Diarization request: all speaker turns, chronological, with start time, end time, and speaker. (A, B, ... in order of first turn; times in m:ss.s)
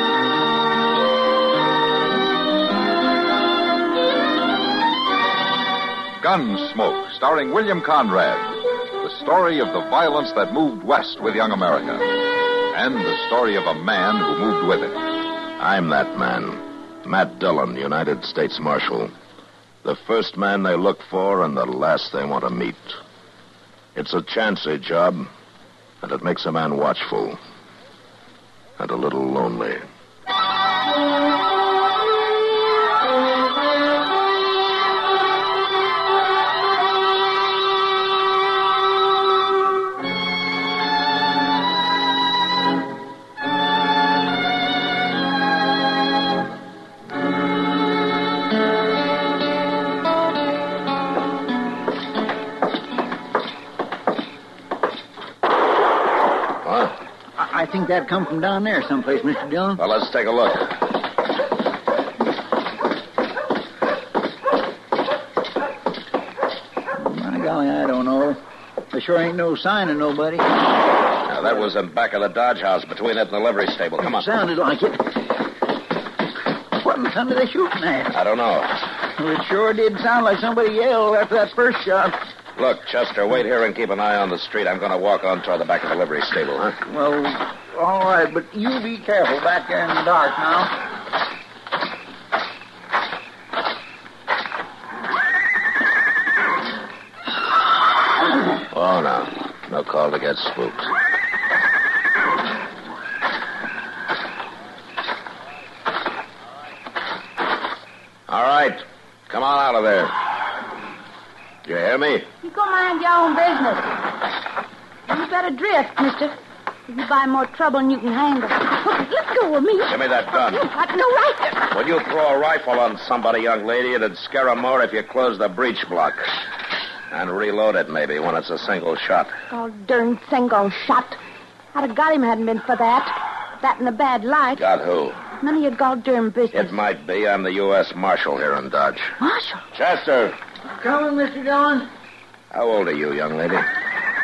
0:06.2-0:12.1 A
0:12.7-0:15.0 A
0:15.6-0:19.1 B
0:19.8-0:23.0 B
0:24.0-0:25.3 B
0:26.0-0:27.4 B
0:28.8-0:29.8 B
0:56.6-0:57.0 B
0:57.4-0:59.8 C
0:59.8-1:00.8 B
1:07.0-1:10.6 C
1:11.2-1:14.3 B
1:14.0-1:15.2 C
1:16.7-1:18.2 C
1:18.1-1:18.8 B
1:19.2-1:22.2 C
1:22.6-1:26.8 B
1:26.9-1:30.8 C
1:38.7-1:40.9 B
1:48.3-1:50.2 B
1:51.6-1:52.3 B
1:52.4-1:53.9 D
1:55.1-1:56.3 D
1:56.9-2:01.6 D
1:59.9-2:00.7 B
2:01.7-2:06.3 B
2:07.1-2:09.3 B
2:09.5-2:11.2 D
2:11.7-2:14.6 D
2:14.6-2:15.2 B
2:15.4-2:16.8 D
2:16.5-2:19.2 B
2:19.2-2:19.6 D
2:19.7-2:20.4 B
2:20.8-2:21.9 C
2:22.5-2:23.7 B